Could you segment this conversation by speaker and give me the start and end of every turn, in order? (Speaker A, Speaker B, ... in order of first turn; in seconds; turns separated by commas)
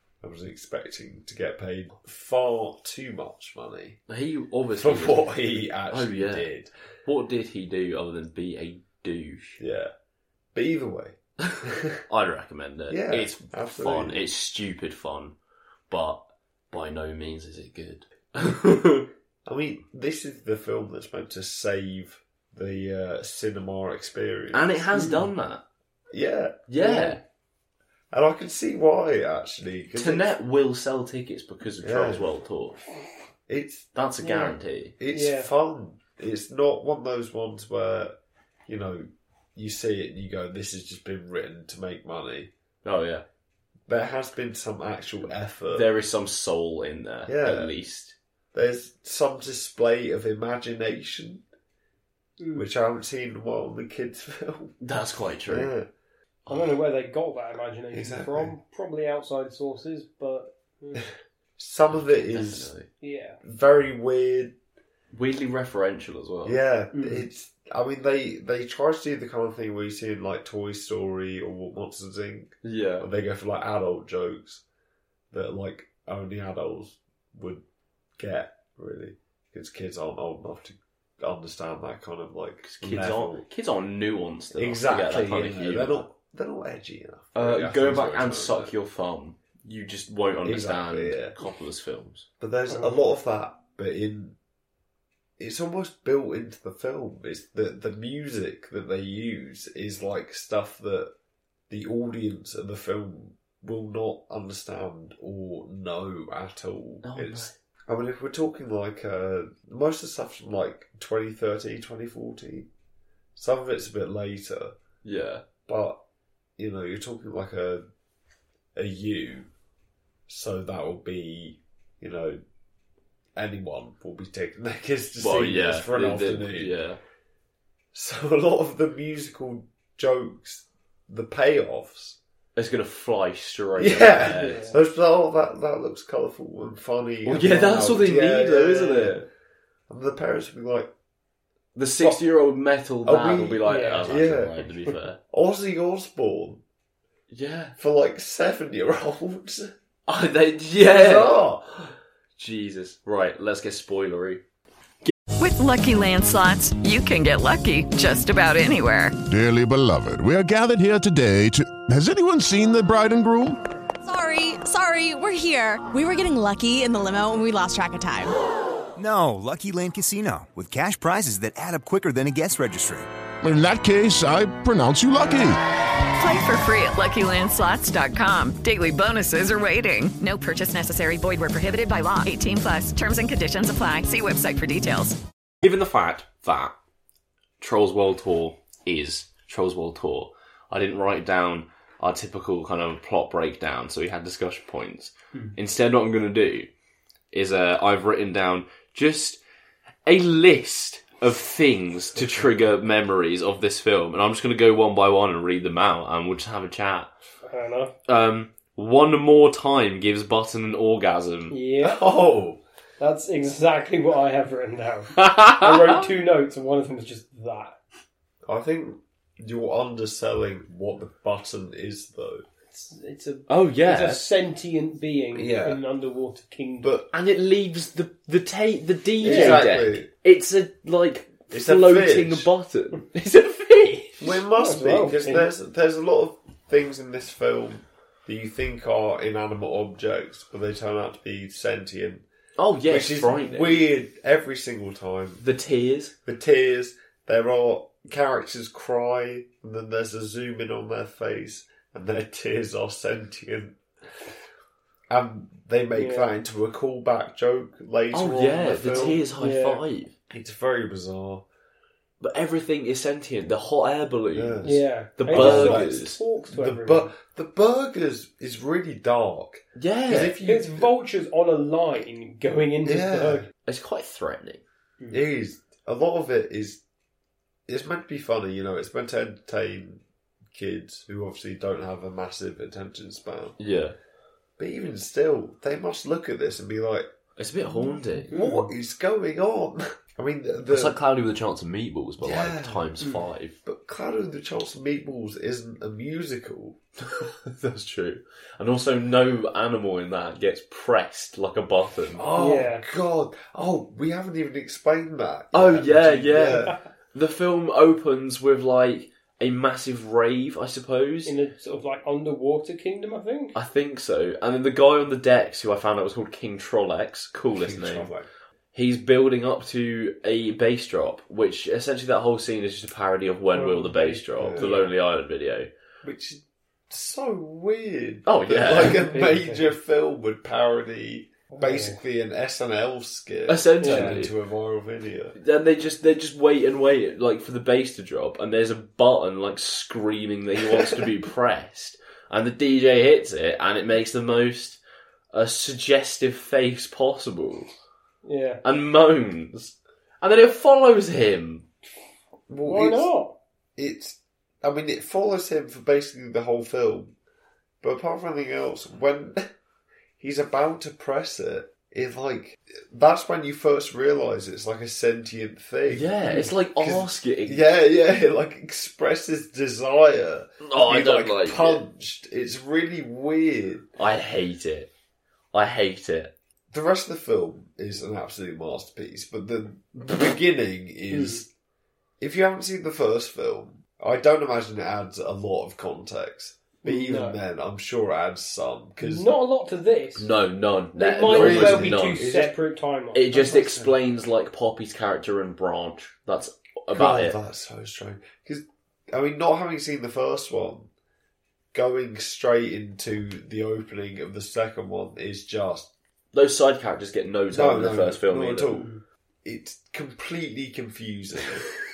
Speaker A: 0.2-4.0, Speaker B: 4.1-5.3, Speaker A: 4.7-6.7, Speaker B: 5.9-6.5, Speaker B: 7.0-9.6, Speaker A: 9.6-9.9, Speaker A: 10.5-12.0, Speaker B: 11.4-15.3, Speaker A: 12.9-14.2, Speaker B: 15.9-19.1, Speaker A: 19.4-24.9, Speaker B: 24.5-25.6, Speaker C: 24.9-25.2, Speaker A: 26.1-27.1, Speaker B: 26.7-27.2, Speaker A: 28.1-30.3, Speaker B: 29.9-32.8, Speaker A: 31.8-32.3, Speaker A: 33.5-33.9, Speaker B: 33.9-34.9, Speaker C: 34.2-34.5, Speaker A: 35.0-38.1, Speaker C: 35.1-35.5, Speaker A: 38.7-42.5, Speaker B: 42.8-43.2, Speaker A: 43.9-45.9, Speaker B: 45.7-48.1, Speaker A: 47.3-47.7, Speaker A: 48.5-51.4, Speaker C: 52.4-52.7, Speaker A: 52.5-54.7, Speaker B: 54.8-55.7, Speaker A: 55.5-55.9, Speaker B: 56.5-56.8, Speaker C: 56.5-61.0, Speaker A: 57.9-58.5, Speaker A: 61.6-62.7, Speaker B: 61.9-62.9, Speaker C: 63.0-63.4, Speaker A: 63.4-64.5, Speaker B: 65.1-66.6, Speaker A: 66.4-74.6, Speaker C: 66.9-67.3, Speaker B: 72.6-73.1, Speaker A: 75.3-77.6, Speaker A: 78.2-83.4, Speaker B: 82.6-86.0, Speaker A: 84.5-88.7, Speaker B: 87.3-92.2, Speaker A: 90.4-91.3, Speaker A: 92.4-94.4, Speaker C: 92.7-93.0, Speaker A: 95.4-101.1, Speaker A: 101.7-112.7, Speaker B: 107.0-107.5, Speaker A: 113.3-114.8, Speaker B: 115.0-115.4, Speaker A: 115.7-116.0, Speaker A: 116.6-117.8, Speaker A: 118.7-119.5, Speaker A: 120.3-122.4, Speaker A: 123.3-126.8, Speaker B: 125.2-127.0, Speaker A: 127.9-132.2, Speaker B: 132.6-134.7, Speaker A: 133.8-139.2, Speaker C: 134.3-134.8, Speaker B: 137.2-139.3, Speaker A: 139.9-140.9, Speaker B: 141.7-145.2, Speaker A: 143.0-144.6, Speaker C: 143.7-144.1, Speaker A: 145.3-146.6, Speaker B: 147.3-147.8, Speaker A: 147.8-149.7, Speaker B: 150.1-151.4, Speaker A: 150.8-151.9, Speaker B: 152.4-154.4, Speaker D: 155.4-159.2, Speaker E: 159.2-163.6, Speaker F: 164.0-168.3, Speaker G: 168.9-173.1, Speaker E: 173.4-175.6, Speaker D: 176.2-185.2, Speaker B: 185.6-186.8, Speaker B: 187.6-196.7, Speaker B: 197.3-199.4, Speaker B: 200.1-207.1, Speaker C: 207.4-207.9, Speaker B: 208.1-211.5, Speaker C: 211.5-212.1, Speaker A: 211.8-212.6, Speaker C: 213.0-217.8, Speaker B: 215.2-216.0, Speaker A: 218.4-222.4, Speaker C: 222.7-226.9, Speaker B: 223.5-224.2, Speaker A: 225.3-225.8, Speaker B: 227.0-234.2, Speaker A: 229.2-230.1, Speaker C: 229.2-229.6, Speaker A: 231.5-232.5, Speaker A: 234.2-242.2, Speaker C: 234.6-235.5, Speaker B: 242.6-243.9, Speaker A: 242.8-245.4, Speaker B: 245.4-246.1, Speaker A: 246.2-253.8, Speaker A: 255.1-259.2, Speaker C: 255.9-256.3, Speaker B: 258.1-260.1, Speaker C: 258.9-259.8, Speaker A: 260.3-261.4, Speaker B: 262.2-264.6, Speaker A: 264.3-270.9, Speaker C: 264.6-267.1, Speaker B: 265.2-266.2, Speaker B: 269.8-270.4, Speaker C: 270.4-273.4, Speaker A: 272.8-273.5, Speaker B: 273.6-274.6, Speaker A: 275.1-276.8, Speaker A: 277.7-283.6, Speaker B: 283.6-283.9, Speaker A: 284.6-287.1, Speaker B: 287.4-288.4, Speaker A: 287.7-291.0, Speaker C: 288.3-288.7, Speaker B: 290.7-293.6, Speaker A: 292.2-292.9, Speaker A: 293.6-296.8, Speaker B: 297.0-302.2, Speaker A: 302.1-306.8, Speaker C: 302.4-302.8, Speaker B: 305.5-311.3, Speaker C: 311.2-313.5, Speaker B: 313.5-318.1, Speaker A: 317.5-318.3, Speaker B: 318.7-325.7, Speaker C: 323.5-324.9, Speaker A: 324.4-324.7, Speaker A: 326.0-335.4, Speaker B: 328.2-329.0, Speaker C: 328.9-329.7, Speaker C: 331.5-332.0, Speaker B: 333.5-334.3, Speaker C: 333.8-334.2, Speaker B: 335.4-344.8, Speaker B: 345.3-347.7, Speaker C: 348.2-348.6, Speaker B: 348.6-351.6, Speaker A: 352.5-353.1, Speaker C: 352.6-353.4, Speaker A: 353.8-357.1, Speaker A: 357.8-359.4, Speaker A: 360.2-373.9, Speaker B: 365.9-367.6, Speaker B: 370.6-371.8, Speaker B: 374.0-374.9, Speaker B: 375.5-376.3, Speaker A: 376.7-381.5, Speaker C: 381.1-381.4, Speaker A: 382.2-389.3, Speaker C: 386.8-387.4, Speaker C: 389.0-390.3, Speaker B: 390.1-392.3, Speaker C: 390.9-393.3, Speaker A: 391.2-392.5, Speaker B: 393.1-397.4, Speaker A: 393.3-393.9, Speaker A: 396.9-400.9, Speaker A: 401.7-405.9, Speaker B: 406.3-408.7, Speaker A: 407.5-408.9, Speaker C: 408.7-409.0, Speaker A: 409.4-411.7